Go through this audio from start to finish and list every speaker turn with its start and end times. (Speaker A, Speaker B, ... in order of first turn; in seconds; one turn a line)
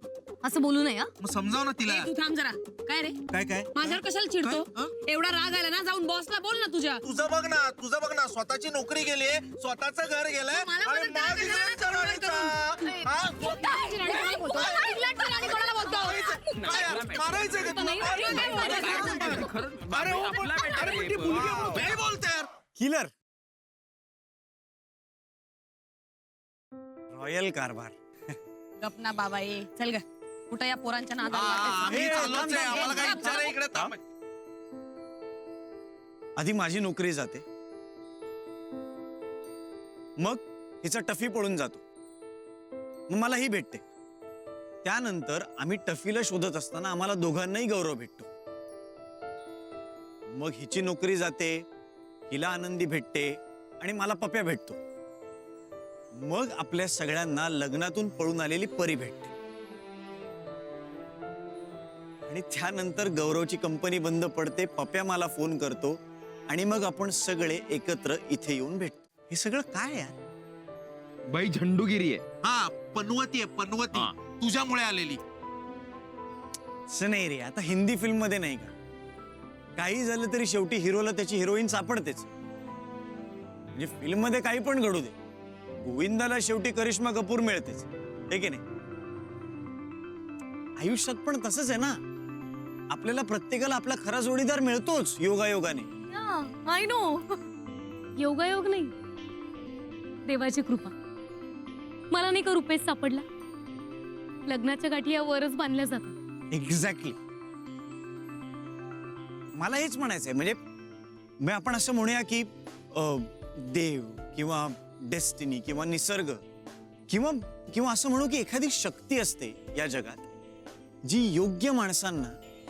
Speaker A: 0.4-1.1
Speaker B: 1.2-2.1
Speaker C: 1.8-3.2
Speaker B: 3.3-4.7
Speaker C: 3.7-7.0
Speaker B: 7.0-15.0
Speaker C: 10.5-19.5
Speaker B: 15.6-22.5
Speaker D: 16.3-17.6
Speaker D: 18.2-21.9
Speaker E: 22.7-23.1
Speaker E: 27.1-27.9
Speaker C: 28.8-33.6
Speaker B: 31.3-34.0
Speaker E: 31.9-33.9
Speaker E: 36.4-37.4
Speaker E: 40.2-41.8
Speaker E: 43.1-43.8
Speaker E: 44.8-48.3
Speaker E: 50.3-51.6
Speaker E: 52.3-54.8
Speaker E: 56.2-59.3
Speaker E: 62.3-66.0
Speaker E: 66.5-70.1
Speaker D: 71.3-72.2
Speaker B: 72.4-75.2
Speaker E: 76.9-78.7
Speaker E: 79.8-82.3
Speaker E: 83.8-85.1
Speaker E: 85.8-88.6
Speaker E: 90.8-91.9
Speaker E: 92.9-95.9
Speaker A: 96.1-97.4
Speaker A: 98.2-98.9
Speaker A: 100.3-100.9
Speaker A: 102.1-103.2
Speaker A: 104.5-106.1
Speaker E: 106.5-107.2
Speaker E: 109.6-110.6
Speaker E: 111.4-116.4
Speaker E: 117.1-120.2
Speaker E: 121.0-122.3